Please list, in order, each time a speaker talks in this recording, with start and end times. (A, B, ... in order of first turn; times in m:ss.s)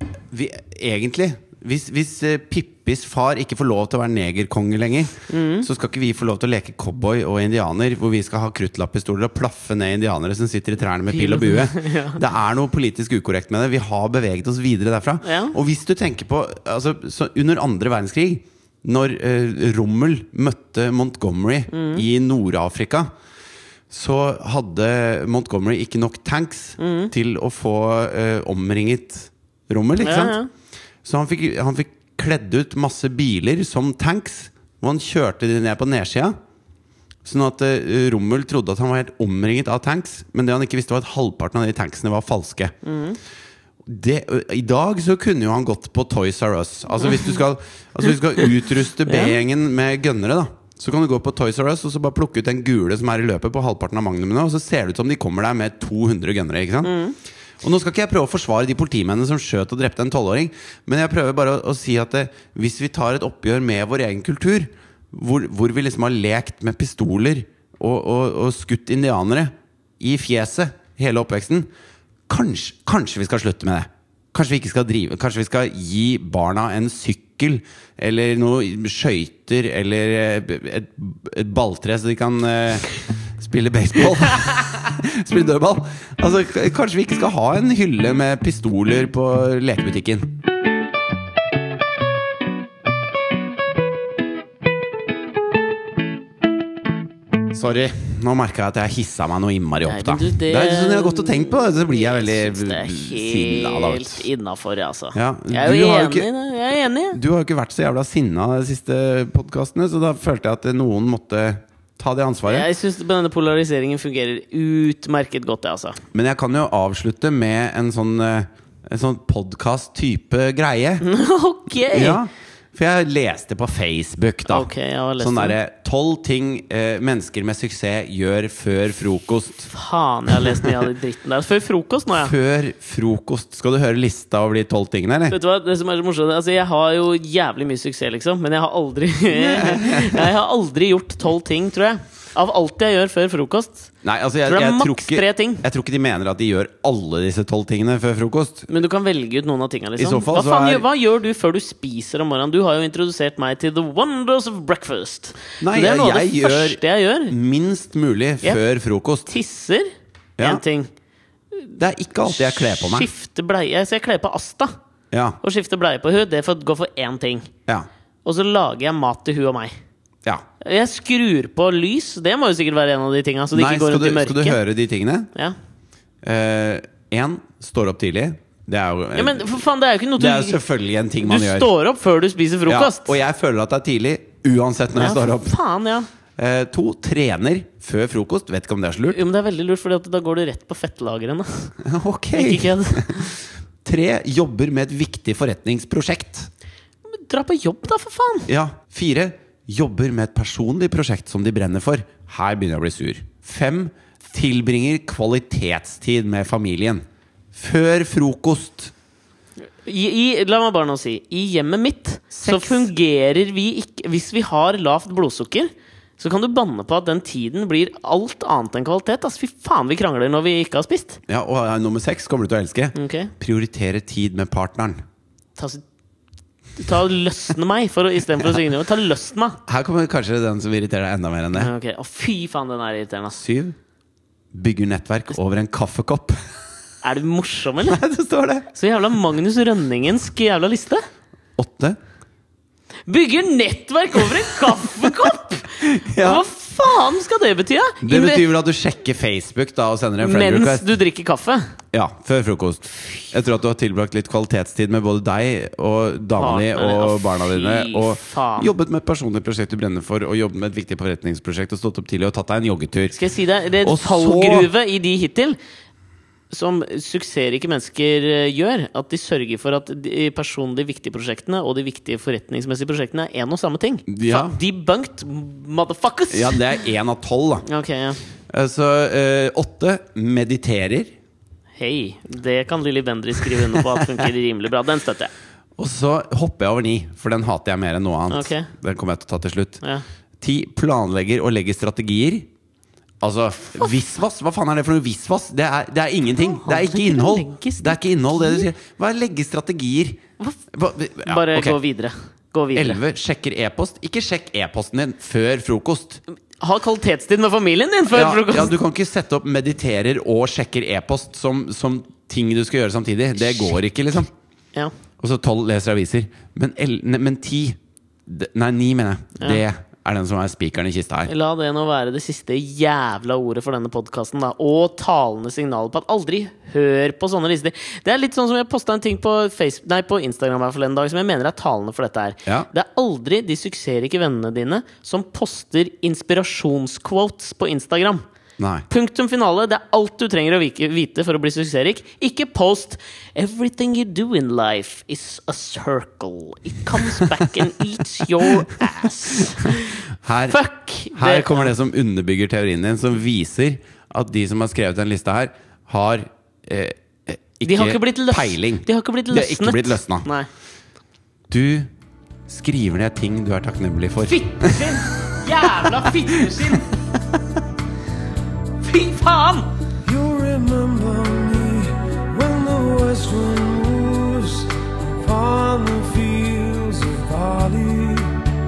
0:00.3-0:23.1 A
0:05.3-0:05.7 B
0:11.1-0:12.2 B
0:15.2-0:15.5 B
0:21.7-0:22.0 B
0:23.9-0:30.4 A
0:26.8-0:27.1 B
0:30.0-0:30.5 B
0:31.0-0:36.3 A
0:37.2-0:42.7 A
0:42.8-0:43.2 B
0:43.8-0:57.0 A
0:49.1-0:49.4 B
0:56.8-0:57.2 B
0:57.6-1:11.7 A
1:12.3-1:30.3 A
1:37.5-1:44.2 A
1:39.8-1:47.2 B
1:45.1-1:46.3 A
1:47.1-1:52.7 A
1:52.4-1:56.0 B
1:56.1-2:01.0 A
2:01.0-2:02.2 B
2:01.8-2:04.7 A
2:04.4-2:05.6 B
2:05.2-2:09.7 A
2:09.7-2:12.3 B
2:10.3-2:10.8 A
2:12.2-2:15.4 A
2:15.3-2:23.9 B
2:19.3-2:20.3 A
2:24.0-2:28.7 A
2:24.4-2:25.6 B
2:28.7-2:37.3 B
2:30.0-2:30.8 A
2:35.6-2:39.3 A
2:39.2-2:40.9 B
2:41.6-2:44.7 B
2:41.8-2:43.1 A
2:45.1-2:45.4 A
2:45.4-2:47.5 B
2:48.2-2:49.7 B
2:50.6-2:54.6 B
2:53.5-2:55.3 A
2:56.2-2:59.6 A
2:59.2-3:00.6 B
3:00.2-3:01.7 A
3:01.2-3:03.2 B
3:02.6-3:05.6 A
3:05.0-3:06.1 B
3:06.4-3:09.2 A
3:09.1-3:11.7 B
3:11.8-3:16.5 A
3:12.3-3:13.3 B
3:17.1-3:18.5 B
3:18.5-3:28.9 A
3:29.8-3:41.2 B
3:32.3-3:32.9 A
3:41.3-3:45.0 A
3:42.9-3:43.3 B
3:45.6-3:45.8 B
3:46.8-3:49.6 B
3:49.6-3:51.7 A
3:51.5-3:53.4 B
3:53.4-3:53.8 A
3:54.5-3:56.4 A
3:57.0-3:58.0 B
3:57.8-3:58.7 A
3:58.7-4:01.0 B
4:01.6-4:02.0 A
4:03.1-4:08.4 B
4:05.0-4:05.3 A
4:05.8-4:06.4 A
4:08.0-4:10.9 A
4:10.2-4:11.6 B
4:11.9-4:23.2 A
4:16.4-4:18.7 B
4:23.1-4:25.6 B
4:23.8-4:24.7 A
4:26.5-4:36.8 B
4:34.1-4:34.6 A
4:36.3-4:37.7 A
4:37.6-4:38.2 B
4:38.5-4:41.1 A
4:41.8-4:45.3 B
4:45.8-4:49.8 A
4:48.3-4:48.7 B
4:50.4-4:52.5 A
4:53.2-5:01.8 A
4:56.4-4:58.6 B
5:01.2-5:03.0 B
5:02.7-5:06.2 A
5:06.6-5:08.7 B
5:08.1-5:14.3 A
5:15.2-5:21.3 A
5:21.3-5:38.2 B
5:38.6-5:38.8 A
5:38.9-5:51.7 B
5:48.4-5:48.9 A
5:49.7-5:50.6 A
5:51.1-6:00.3 A
5:57.6-6:00.5 B
6:01.5-6:01.9 A
6:02.5-6:06.8 A
6:04.3-6:06.9 B
6:08.8-6:09.7 B
6:10.0-6:18.4 C